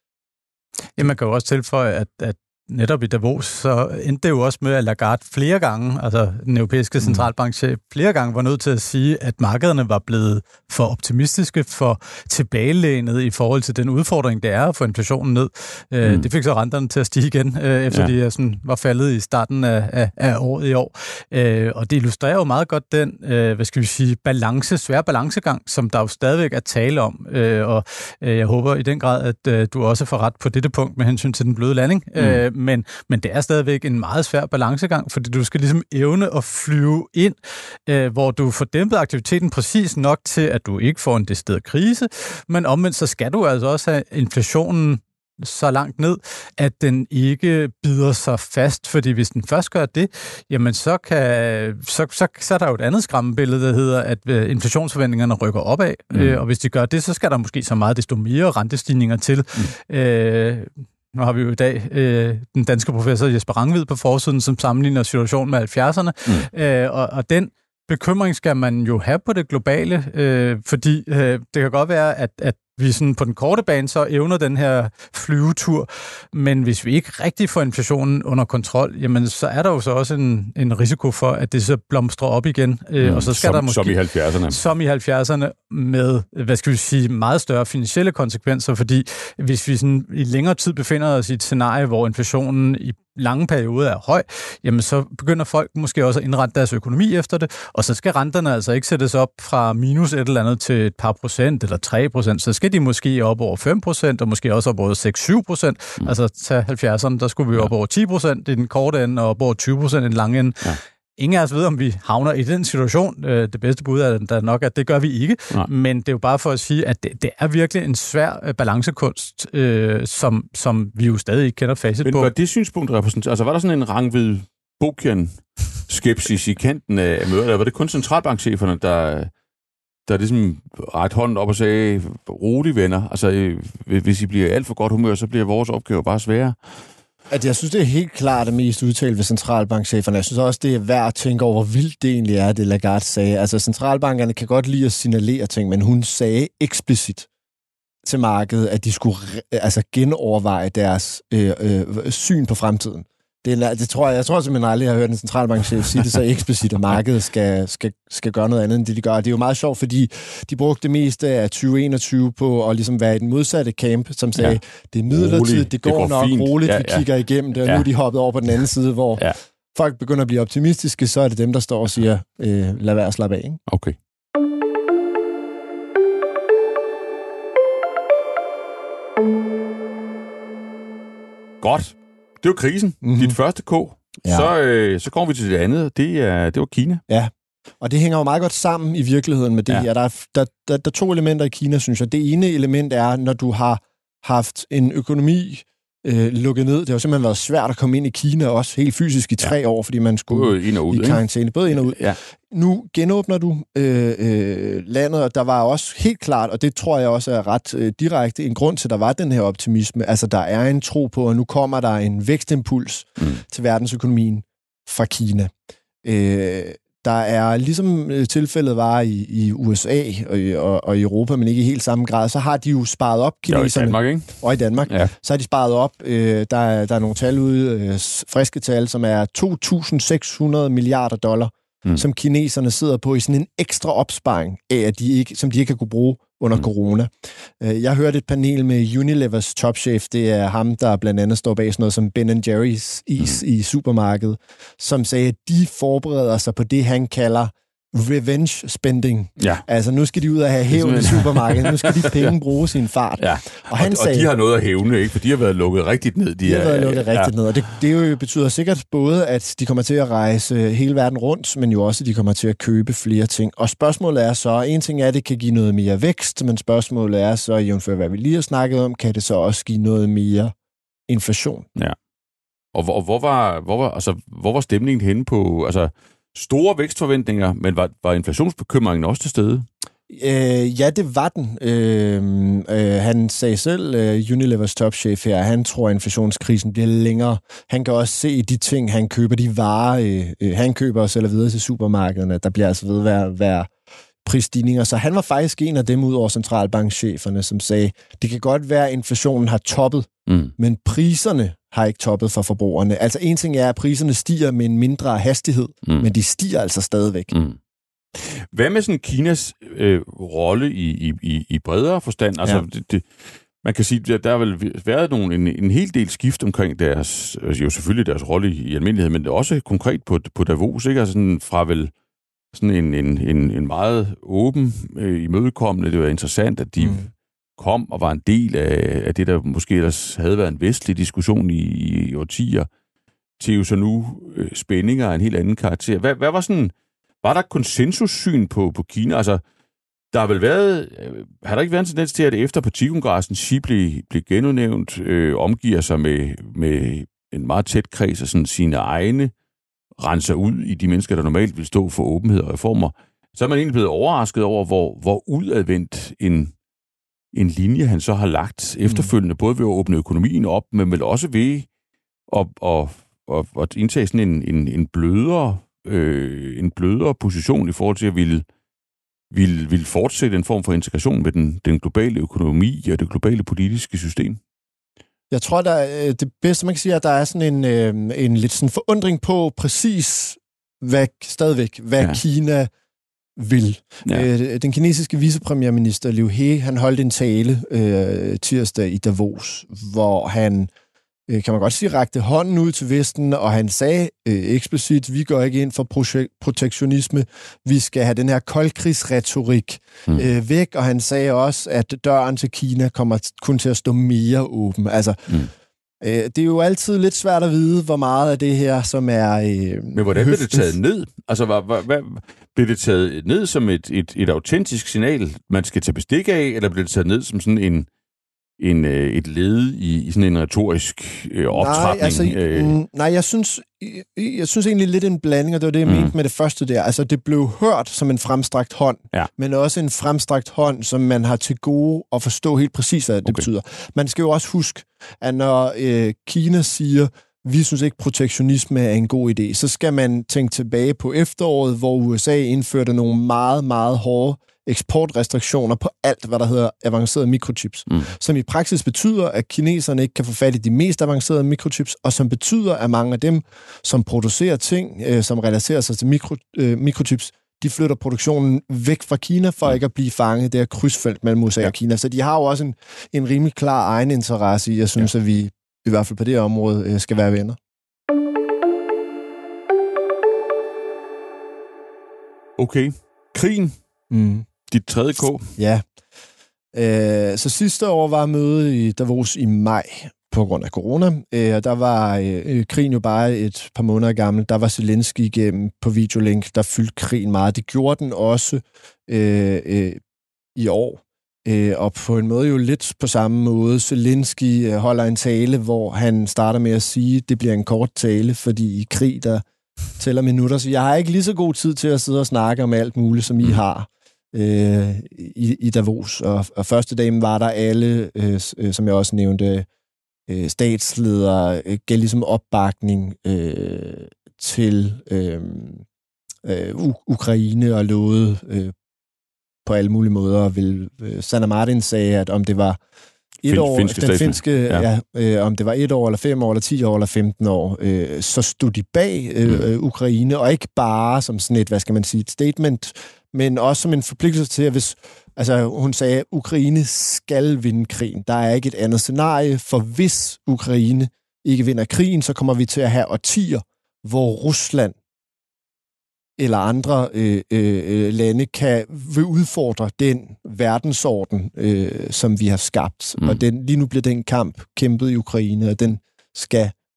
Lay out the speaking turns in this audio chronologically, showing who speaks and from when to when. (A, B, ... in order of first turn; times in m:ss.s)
0:01.0-2:02.3 A
0:32.2-0:32.4 B
0:56.1-0:56.4 B
1:23.0-1:24.6 B
2:02.0-2:09.3 B
2:10.0-2:16.8 B
2:17.3-2:27.3 C
2:28.0-2:53.6 C
2:45.1-2:47.0 B
2:53.7-2:54.0 B
3:01.6-3:07.0 B
3:03.0-3:03.4 C
3:04.2-3:04.5 C
3:07.1-3:35.5 C
3:20.3-3:21.2 B
3:21.7-3:22.2 B
3:36.0-4:14.3 C
3:43.5-3:45.1 B
4:09.4-4:09.6 B
4:10.7-4:12.3 B
4:13.2-4:17.3 B
4:16.4-4:30.5 C
4:31.1-4:31.6 C
4:32.7-4:39.6 B
4:40.1-4:53.7 C
4:54.2-5:07.3 C
5:00.3-5:00.5 B
5:07.3-5:07.6 B
5:08.1-5:21.9 B
5:22.5-5:32.7 B
5:33.4-5:39.4 B
5:40.1-5:49.3 B
5:50.0-5:56.5 B
5:57.3-6:01.7 B
5:58.8-5:59.1 C
6:02.3-6:08.4 B
6:09.3-6:14.4 B
6:15.3-6:22.7 C
6:23.4-6:30.7 C
6:31.3-6:45.4 C
6:46.0-6:50.7 C
6:49.9-6:57.9 B
6:58.6-7:02.7 B
7:01.5-7:47.6 C
7:05.9-7:06.1 B
7:52.6-7:53.8 B
7:54.1-7:54.5 C
7:54.7-7:55.5 B
7:55.6-7:55.8 C
7:56.7-8:10.0 C
8:10.5-8:19.4 C
8:20.0-8:29.7 C
8:30.3-8:35.8 C
8:36.4-8:38.7 C
8:39.6-8:42.8 C
8:43.4-9:05.0 C
8:43.5-8:44.9 B
9:06.4-9:16.7 C